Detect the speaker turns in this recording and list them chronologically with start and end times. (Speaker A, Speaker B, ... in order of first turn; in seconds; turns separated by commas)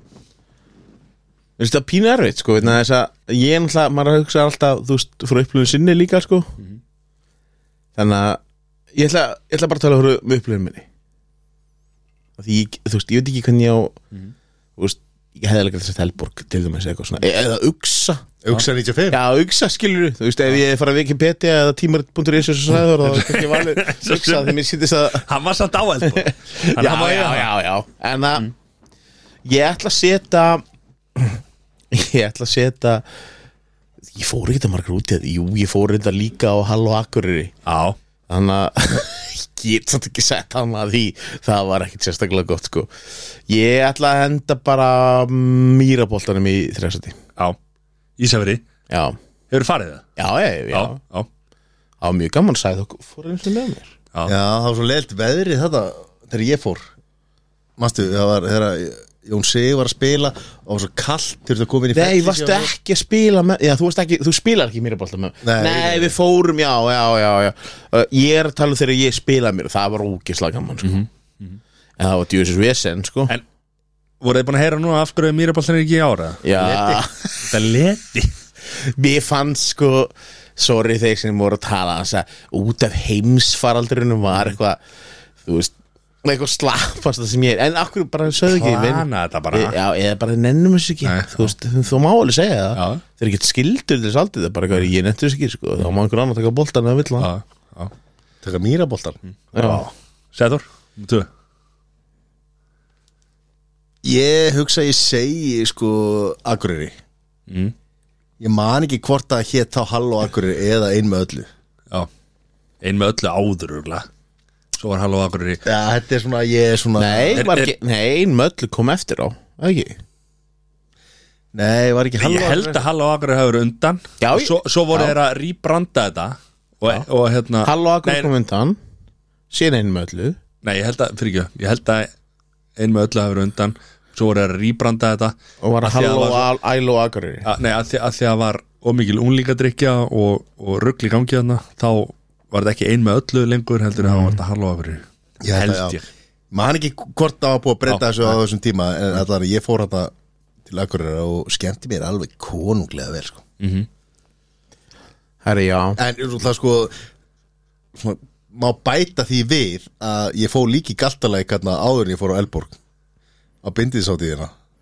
Speaker A: 1.6-6.5, Speaker A: 8.0-8.4, Speaker A: 8.9-10.8, Speaker A: 12.4-14.0, Speaker A: 14.8-18.2, Speaker B: 18.4-19.2, Speaker A: 19.1-25.3, Speaker C: 23.0-24.6, Speaker C: 25.2-27.5, Speaker A: 26.1-28.5, Speaker A: 29.4-30.6, Speaker A: 31.2-33.0, Speaker A: 34.1-37.5, Speaker C: 37.7-38.0, Speaker A: 38.3-42.9, Speaker A: 43.5-47.2, Speaker C: 48.2-48.6, Speaker A: 48.9-49.2, Speaker C: 49.5-50.1, Speaker A: 50.2-51.0, Speaker C: 50.7-51.3, Speaker A: 52.0-53.9, Speaker B: 54.3-56.9, Speaker B: 57.8-62.7, Speaker A: 61.9-71.1, Speaker B: 65.4-66.2, Speaker C: 70.8-71.6, Speaker A: 72.0-73.3, Speaker C: 74.2-78.3, Speaker A: 76.4-77.2, Speaker A: 78.7-84.8, Speaker A: 85.4-97.3, Speaker C: 88.5-89.8, Speaker C: 91.0-91.5, Speaker C: 92.8-93.0, Speaker C: 97.2-97.9, Speaker B: 98.4-99.2, Speaker C: 99.5-101.3, Speaker A: 99.5-99.9, Speaker B: 104.0-107.0, Speaker C: 107.5-107.7, Speaker B: 108.4-111.5, Speaker C: 112.8-114.1, Speaker C: 114.8-115.6, Speaker B: 115.7-117.5, Speaker A: 117.0-120.0, Speaker C: 117.3-117.7, Speaker B: 121.5-122.8, Speaker C: 122.2-128.3, Speaker A: 124.2-125.1, Speaker A: 127.6-128.8, Speaker A: 129.5-130.4, Speaker C: 130.6-132.1, Speaker C: 132.8-136.5, Speaker A: 135.6-137.5, Speaker C: 137.4-146.1, Speaker B: 145.4-146.0, Speaker B: 146.5-150.1, Speaker C: 147.9-148.3, Speaker B: 150.7-153.4, Speaker C: 153.6-153.9, Speaker A: 155.4-156.0, Speaker B: 156.0-157.0, Speaker B: 157.9-162.8, Speaker B: 163.6-164.5